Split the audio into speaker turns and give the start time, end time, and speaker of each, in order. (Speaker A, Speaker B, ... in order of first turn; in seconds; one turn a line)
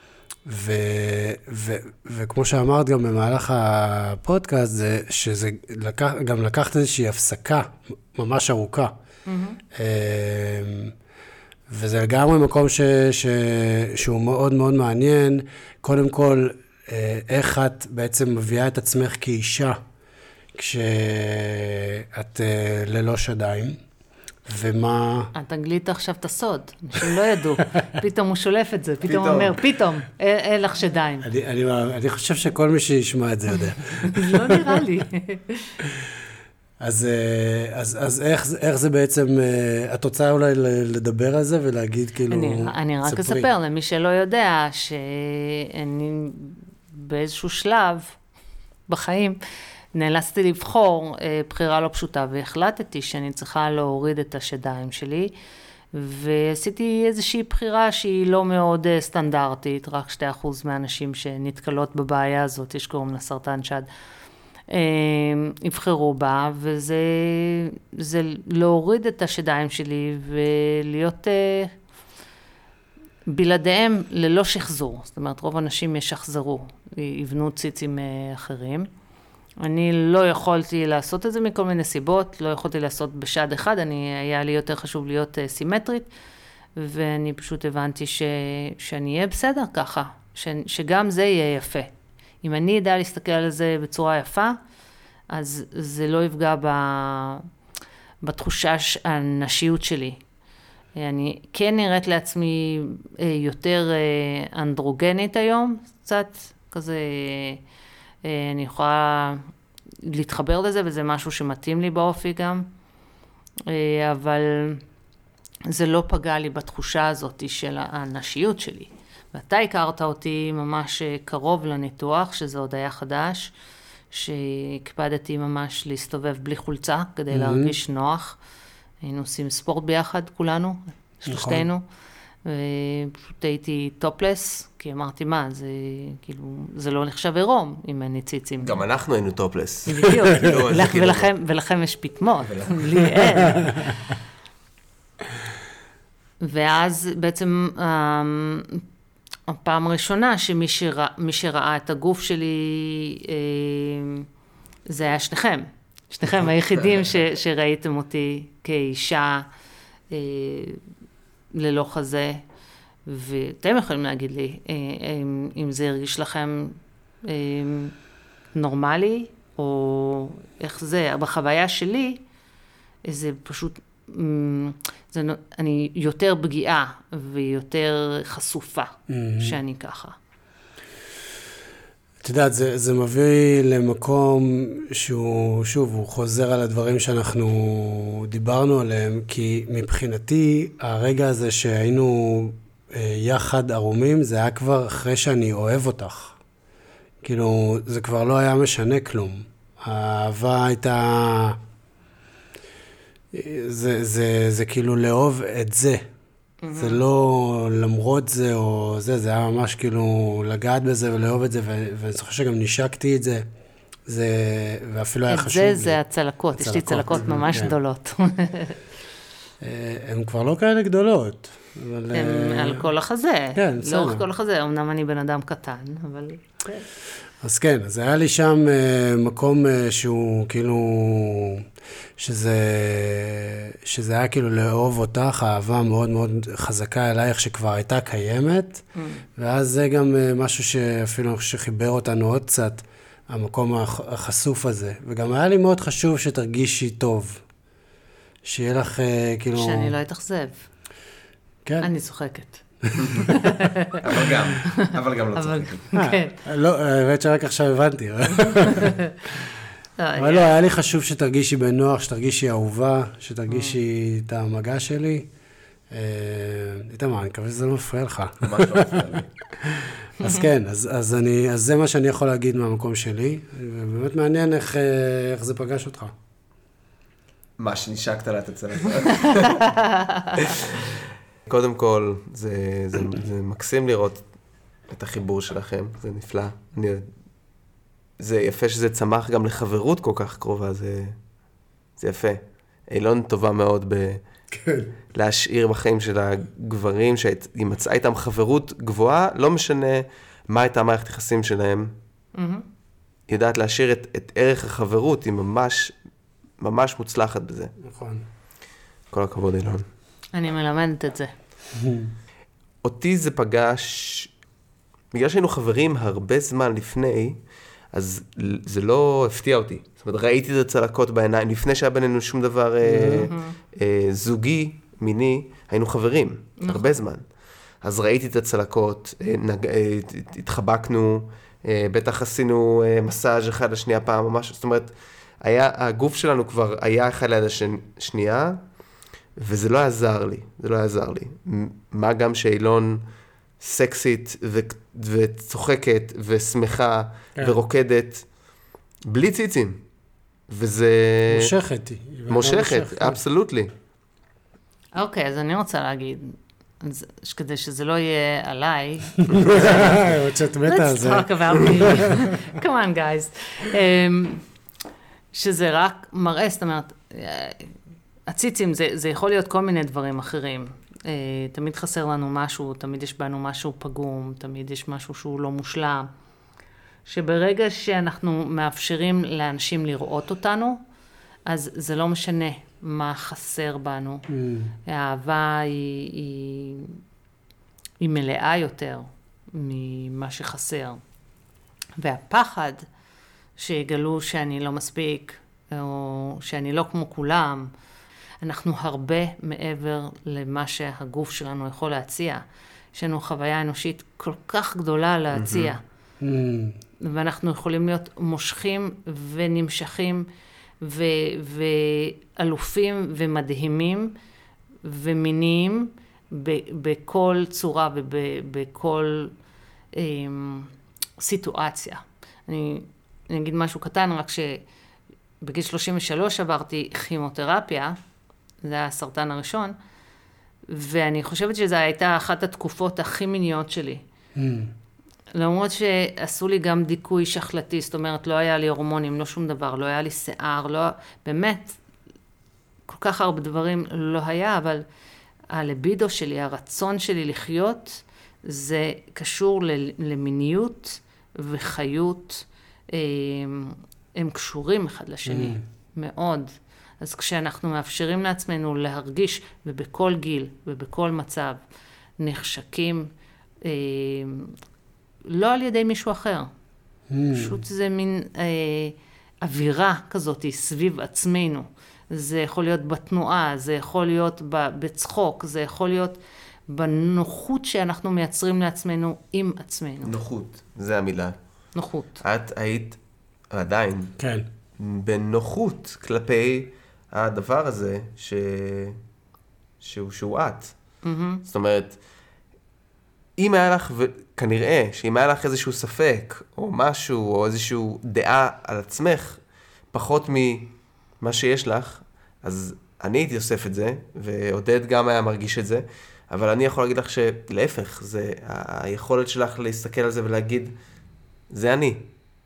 Speaker A: 0.5-8.9
Speaker B: 9.3-9.6
Speaker A: 9.7-10.9
Speaker A: 11.7-19.8
Speaker A: 20.6-23.8
Speaker A: 24.5-25.3
Speaker B: 25.4-31.3
Speaker C: 29.0-29.6
Speaker A: 31.2-34.7
Speaker B: 34.0-35.7
Speaker A: 36.8-43.5
Speaker B: 42.3-48.2
Speaker B: 48.9-49.4
Speaker B: 49.9-55.3
Speaker B: 55.9-63.9
Speaker B: 64.7-71.7
Speaker B: 73.3-78.9
Speaker B: 79.6-86.1
Speaker B: 86.8-91.9
Speaker B: 92.4-94.6
Speaker B: 95.3-97.5
Speaker B: 98.2-100.2
Speaker B: 101.0-107.6
Speaker B: 108.2-109.4
Speaker B: 110.0-112.7
Speaker B: 113.7-114.8
Speaker B: 115.7-123.5
Speaker B: 124.1-128.4
Speaker A: 127.3-127.8
Speaker B: 129.0-131.8
Speaker A: 131.3-131.7
Speaker B: 132.4-138.8
Speaker C: 138.6-141.3
Speaker B: 139.9-144.1
Speaker C: 142.4-142.9
Speaker B: 146.4-148.8
Speaker B: 149.5-154.3
Speaker B: 154.9-159.5
Speaker B: 160.1-160.8
Speaker B: 161.5-162.4
Speaker B: 163.1-167.9
Speaker B: 168.5-172.2
Speaker B: 173.1-180.2
Speaker A: 179.1-179.6
Speaker A: 182.2-196.4
Speaker A: 197.2-201.6
Speaker A: 203.3-206.0
Speaker B: 206.6-207.0
Speaker A: 206.8-213.5
Speaker A: 214.1-216.0
Speaker B: 215.3-218.8
Speaker A: 216.6-217.8
Speaker A: 219.6-222.9
Speaker B: 222.1-226.8
Speaker A: 223.6-224.2
Speaker A: 227.4-231.7
Speaker A: 232.2-238.8
Speaker B: 238.9-239.2
Speaker A: 239.4-247.4
Speaker A: 248.5-249.9
Speaker B: 249.6-250.7
Speaker A: 251.7-251.9
Speaker B: 251.8-252.6
Speaker A: 252.8-253.4
Speaker B: 253.2-254.1
Speaker C: 254.0-255.9
Speaker B: 254.6-256.4
Speaker A: 255.9-259.5
Speaker B: 258.4-259.1
Speaker B: 260.0-260.5
Speaker A: 260.2-265.3
Speaker B: 263.5-263.8
Speaker A: 265.9-276.1
Speaker C: 268.4-269.3
Speaker C: 277.6-279.7
Speaker B: 279.7-280.4
Speaker C: 280.4-284.2
Speaker C: 284.9-287.0
Speaker C: 288.2-291.2
Speaker C: 292.0-294.2
Speaker A: 294.6-294.9
Speaker C: 295.1-301.9
Speaker B: 302.3-302.6
Speaker C: 303.3-305.9
Speaker C: 306.6-307.7
Speaker A: 307.8-308.2
Speaker C: 309.1-309.9
Speaker B: 310.3-311.3
Speaker A: 311.7-312.1
Speaker C: 312.8-314.3
Speaker C: 315.1-317.4
Speaker C: 317.9-327.2
Speaker A: 322.8-323.3
Speaker B: 323.2-323.6
Speaker B: 326.6-326.9
Speaker C: 327.8-338.6
Speaker C: 339.4-343.0
Speaker C: 343.6-348.2
Speaker C: 349.1-349.8
Speaker C: 350.5-351.5
Speaker A: 351.3-353.2
Speaker C: 352.3-353.7
Speaker B: 354.9-360.1
Speaker A: 359.2-362.3
Speaker C: 359.3-359.7
Speaker B: 360.7-364.4
Speaker B: 365.3-367.7
Speaker B: 368.3-376.1
Speaker B: 377.1-380.8
Speaker B: 381.5-384.3
Speaker A: 384.3-384.7
Speaker B: 384.9-387.0
Speaker B: 388.0-391.0
Speaker B: 392.0-392.9
Speaker B: 393.6-397.7
Speaker B: 398.4-405.8
Speaker C: 405.3-405.7
Speaker A: 406.2-406.8
Speaker B: 407.0-410.3
Speaker B: 410.8-414.1
Speaker B: 414.8-419.3
Speaker B: 419.9-424.6
Speaker B: 425.4-428.0
Speaker B: 428.6-429.7
Speaker B: 430.7-434.0
Speaker A: 434.4-434.7
Speaker B: 435.3-441.8
Speaker B: 442.9-444.9
Speaker B: 445.5-461.6
Speaker A: 455.3-455.6
Speaker B: 462.2-463.1
Speaker B: 463.6-464.6
Speaker B: 465.2-466.5
Speaker A: 467.1-467.6
Speaker B: 467.3-480.1
Speaker C: 480.0-481.4
Speaker B: 481.8-482.2
Speaker C: 482.2-483.0
Speaker C: 483.5-484.1
Speaker A: 484.2-484.5
Speaker C: 484.8-489.0
Speaker C: 489.8-490.8
Speaker B: 491.0-491.4
Speaker C: 491.5-492.0
Speaker C: 493.4-499.4
Speaker C: 499.9-510.7
Speaker C: 511.5-512.1